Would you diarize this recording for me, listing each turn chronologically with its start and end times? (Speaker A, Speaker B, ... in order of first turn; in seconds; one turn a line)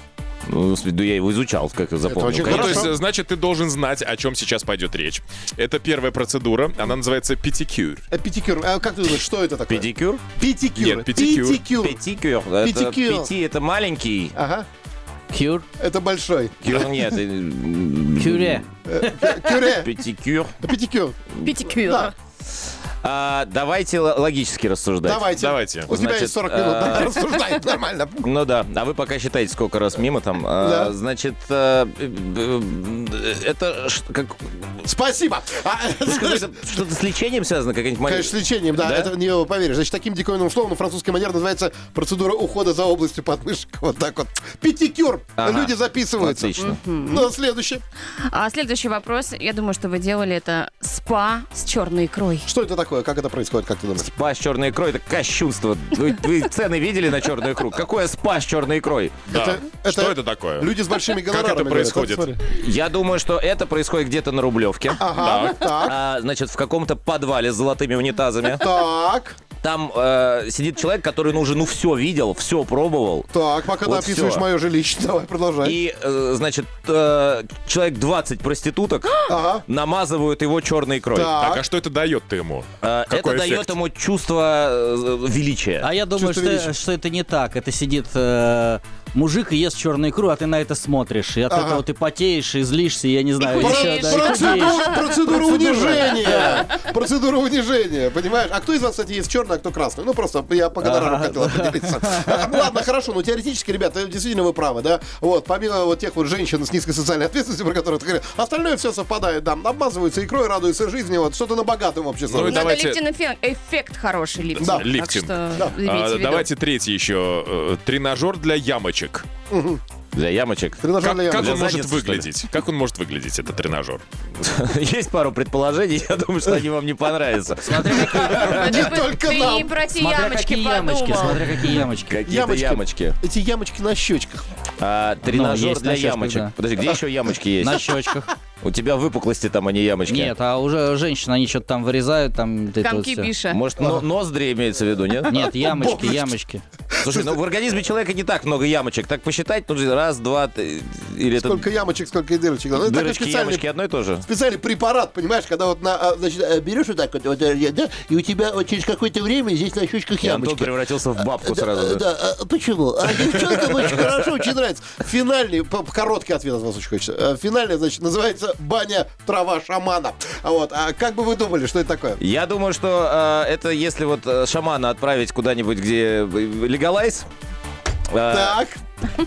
Speaker A: 0.5-2.9
Speaker B: 2.0-3.0
Speaker C: 2.4-8.0
Speaker B: 8.1-12.0
Speaker A: 9.7-10.2
Speaker C: 10.7-11.6
Speaker A: 11.8-14.3
Speaker B: 12.6-13.3
Speaker B: 14.3-14.7
Speaker D: 15.3-15.6
Speaker B: 15.8-16.6
Speaker A: 16.6-18.6
Speaker D: 18.2-19.4
Speaker B: 18.9-19.9
Speaker A: 19.8-20.5
Speaker B: 20.6-21.2
Speaker E: 21.4-22.1
Speaker B: 21.8-22.1
Speaker A: 23.0-25.3
Speaker B: 25.0-28.3
Speaker C: 25.3-25.9
Speaker A: 25.9-27.1
Speaker A: 28.2-34.8
Speaker B: 30.6-30.9
Speaker B: 34.8-36.8
Speaker A: 36.0-39.1
Speaker B: 38.0-47.8
Speaker A: 45.4-46.8
Speaker E: 46.6-47.3
Speaker E: 48.2-52.5
Speaker B: 52.4-54.1
Speaker A: 54.0-59.2
Speaker C: 59.3-60.7
Speaker B: 59.3-62.4
Speaker C: 61.3-62.3
Speaker A: 62.5-65.0
Speaker B: 65.0-66.0
Speaker C: 65.1-65.7
Speaker A: 65.8-68.7
Speaker B: 68.5-69.4
Speaker A: 69.6-73.3
Speaker B: 73.3-75.8
Speaker A: 73.8-74.4
Speaker A: 75.6-81.4
Speaker B: 79.3-79.6
Speaker B: 81.1-81.6
Speaker C: 81.4-83.7
Speaker A: 82.8-85.9
Speaker D: 85.8-96.7
Speaker B: 86.1-86.7
Speaker B: 91.5-91.8
Speaker E: 93.4-95.1
Speaker B: 93.6-112.7
Speaker D: 100.8-102.5
Speaker C: 112.3-113.0
Speaker E: 112.3-116.5
Speaker C: 114.5-119.3
Speaker B: 114.6-114.9
Speaker B: 119.5-119.8
Speaker A: 120.1-122.3
Speaker B: 120.8-121.6
Speaker C: 121.0-124.0
Speaker A: 124.4-128.6
Speaker D: 127.6-128.9
Speaker E: 128.4-131.4
Speaker B: 128.5-129.7
Speaker D: 129.9-132.1
Speaker A: 132.1-133.2
Speaker B: 132.2-134.4
Speaker A: 134.8-137.8
Speaker D: 135.2-136.5
Speaker D: 137.6-138.3
Speaker A: 138.6-140.3
Speaker D: 140.0-143.3
Speaker E: 142.8-143.6
Speaker A: 143.5-145.4
Speaker D: 145.3-146.6
Speaker B: 145.6-146.3
Speaker B: 146.9-147.4
Speaker A: 147.0-151.7
Speaker B: 151.3-153.7
Speaker A: 152.8-154.2
Speaker B: 154.2-160.7
Speaker A: 160.2-162.1
Speaker B: 161.4-172.2
Speaker A: 163.3-164.0
Speaker A: 172.2-177.3
Speaker A: 178.1-178.6
Speaker B: 178.3-178.8